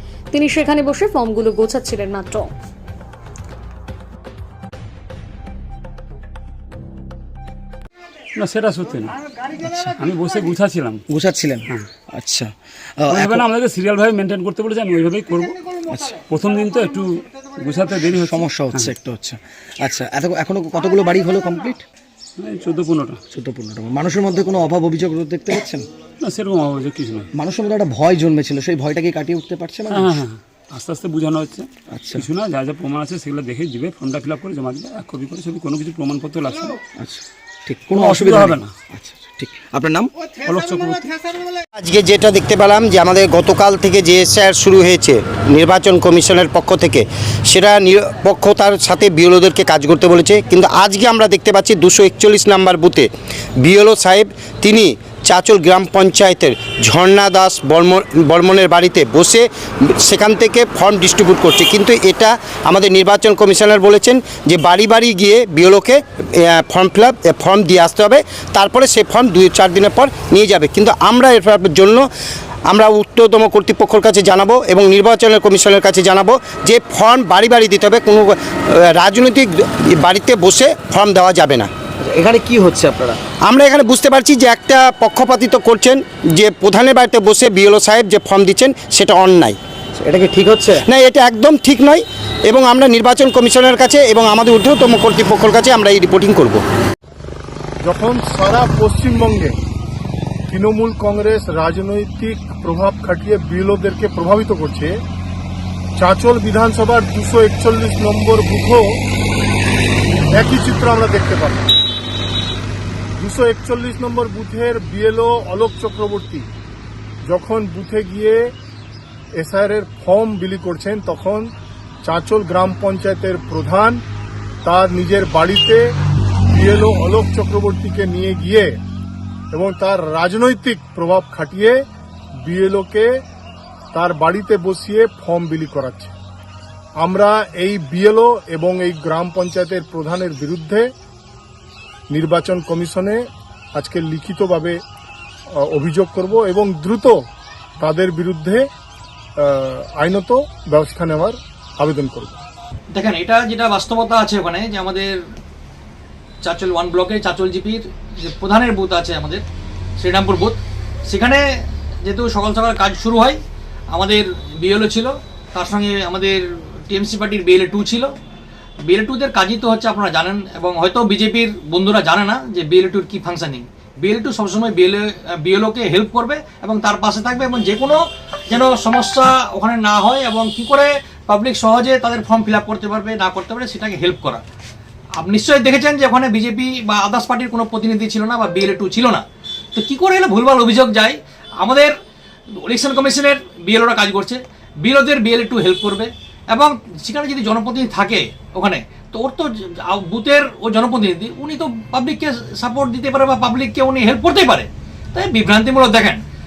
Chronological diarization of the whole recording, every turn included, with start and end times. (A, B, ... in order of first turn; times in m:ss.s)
0:00.3-0:02.5 A
0:08.4-0:11.0 B
0:11.1-0:13.4 C
0:13.1-0:18.9 B
0:18.2-0:21.8 C
0:22.4-0:23.2 B
0:23.3-0:25.9 C
0:26.2-0:27.3 B
0:27.3-0:30.1 C
0:29.9-0:36.8 B
0:31.9-0:32.3 C
0:37.0-0:40.1 C
0:37.9-0:38.7 B
0:40.4-0:41.2 B
0:41.8-0:53.1 D
0:53.6-1:12.1 D
1:12.7-1:21.7 D
1:22.0-1:23.2 C
1:23.4-1:29.6 D
1:30.0-1:30.8 C
1:30.8-1:36.6 D
1:37.8-1:39.6 E
1:40.5-1:45.0 E
1:46.0-1:49.0 E
1:50.3-1:51.7 E
1:53.2-1:56.5 E
1:57.2-1:58.5 E
1:59.3-2:01.5 E
2:02.0-2:04.0 E
2:04.6-2:05.8 E
2:06.5-2:08.8 E
2:09.5-2:11.8 E
2:12.4-2:13.1 E
2:13.9-2:16.1 E
2:17.0-2:20.9 E
2:22.1-2:23.2 E
2:23.8-2:24.8 E
2:25.5-2:27.2 E
2:27.8-2:28.7 E
2:29.4-2:32.4 E
2:32.9-2:35.2 F
2:36.4-2:39.4 F
2:40.0-2:41.4 F
2:42.0-2:43.4 F
2:43.9-2:48.1 F
2:48.8-3:04.4 F
3:05.2-3:09.2 F
3:09.8-3:11.9 F
3:12.6-3:26.2 F